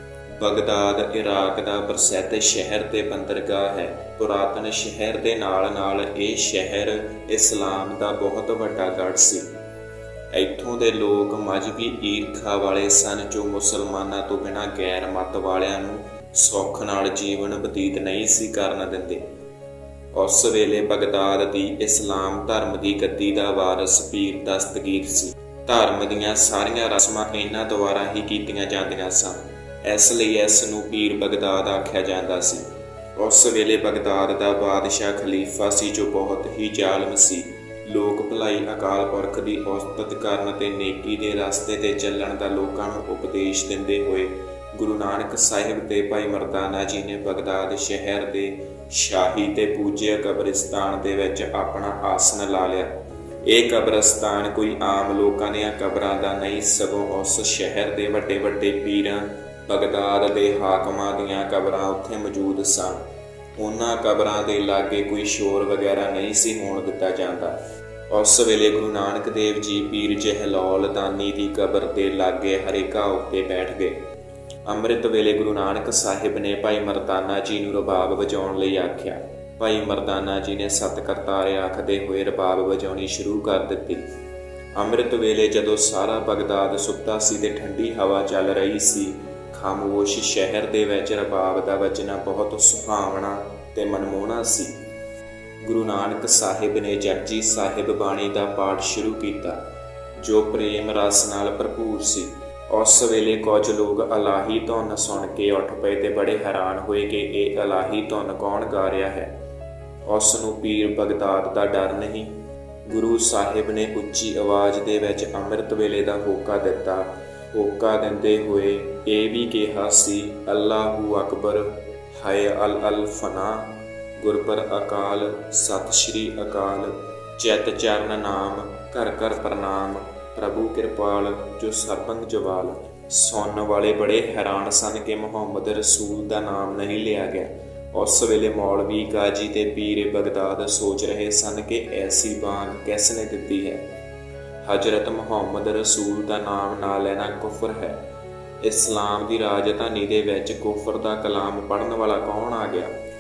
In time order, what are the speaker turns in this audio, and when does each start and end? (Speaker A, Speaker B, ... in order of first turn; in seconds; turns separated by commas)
Speaker A: 0.4-9.5, Speaker A: 10.3-19.2, Speaker A: 20.1-63.0, Speaker A: 63.6-67.6, Speaker A: 68.1-74.0, Speaker A: 74.7-84.1, Speaker A: 84.8-94.8, Speaker A: 95.6-99.6, Speaker A: 100.2-109.3, Speaker A: 110.1-112.3, Speaker A: 112.9-143.8, Speaker A: 144.6-148.0, Speaker A: 148.6-152.9